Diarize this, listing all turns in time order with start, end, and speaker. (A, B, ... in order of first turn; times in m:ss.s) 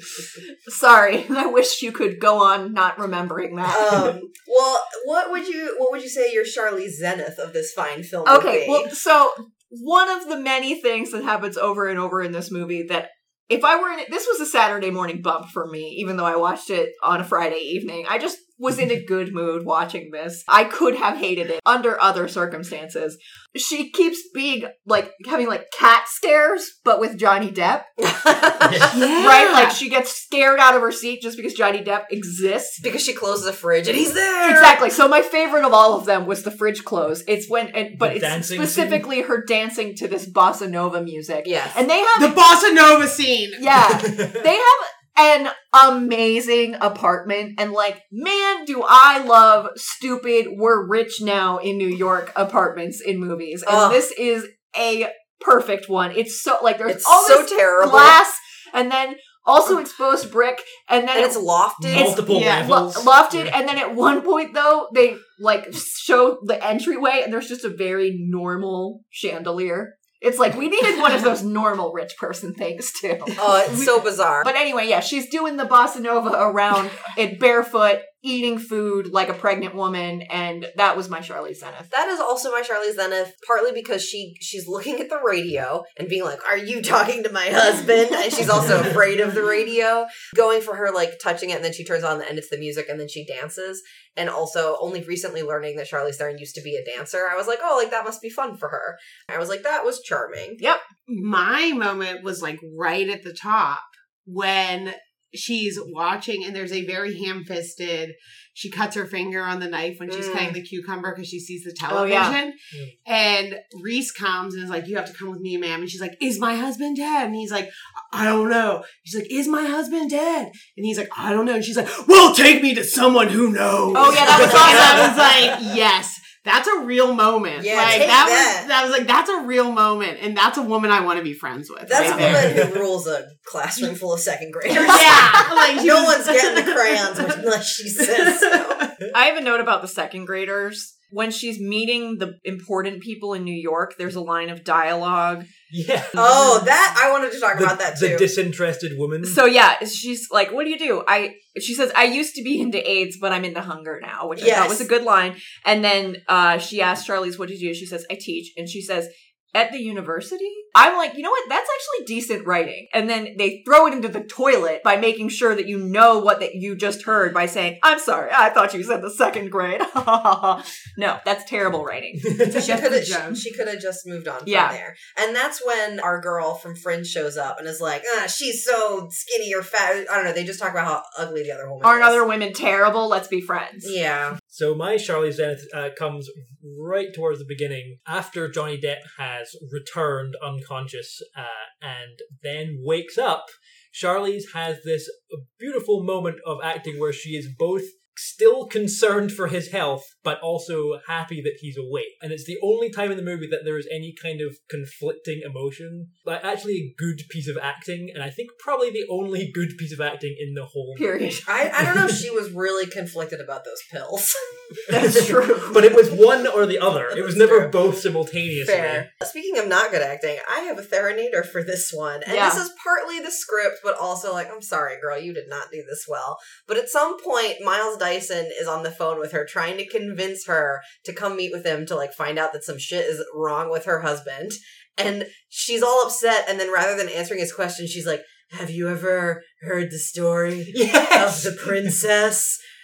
0:00.4-0:04.0 A
0:03.7-0:08.9 B
0:08.2-0:27.9 A
0:28.0-0:28.8 B
0:28.6-0:29.0 C
0:28.9-0:29.8 D
0:29.1-0:32.8 A
0:32.8-0:34.8 B
0:34.4-0:42.4 A
0:38.0-0:39.0 C
0:41.4-0:41.8 B
0:42.2-0:43.6 D
0:43.6-1:01.4 A
0:43.9-0:44.4 C
0:53.6-0:54.0 B
0:56.9-0:58.2 B
1:01.1-1:02.1 B
1:01.8-1:03.5 C
1:01.9-1:13.6 A
1:02.2-1:02.7 D
1:13.4-1:14.5 B
1:14.4-1:21.9 A
1:21.9-1:40.6 B
1:41.1-2:12.6 D
1:50.1-1:50.6 B
1:51.9-1:52.4 A
2:03.9-2:05.1 A
2:04.7-2:05.2 C
2:07.6-2:08.7 B
2:11.8-2:18.9 B
2:12.0-2:12.2 A
2:12.0-2:12.8 C
2:14.7-2:17.4 D
2:18.0-2:18.8 D
2:19.1-2:25.5 A
2:25.7-2:26.6 C
2:26.2-2:28.3 B
2:27.5-2:29.4 C
2:29.2-2:52.4 A
2:34.4-2:34.9 B
2:52.2-2:52.8 C
2:52.5-3:02.2 B
2:52.5-2:53.4 D
2:54.4-2:54.8 A
3:01.8-3:03.9 A
3:03.8-3:04.4 B
3:04.5-3:31.1 C
3:31.0-3:31.5 A
3:31.4-3:34.8 B
3:31.8-3:32.2 C
3:34.8-3:39.1 C
3:34.9-3:35.9 A
3:37.1-3:37.7 B
3:38.6-4:02.6 B
3:42.2-3:42.6 A
4:00.7-4:02.0 C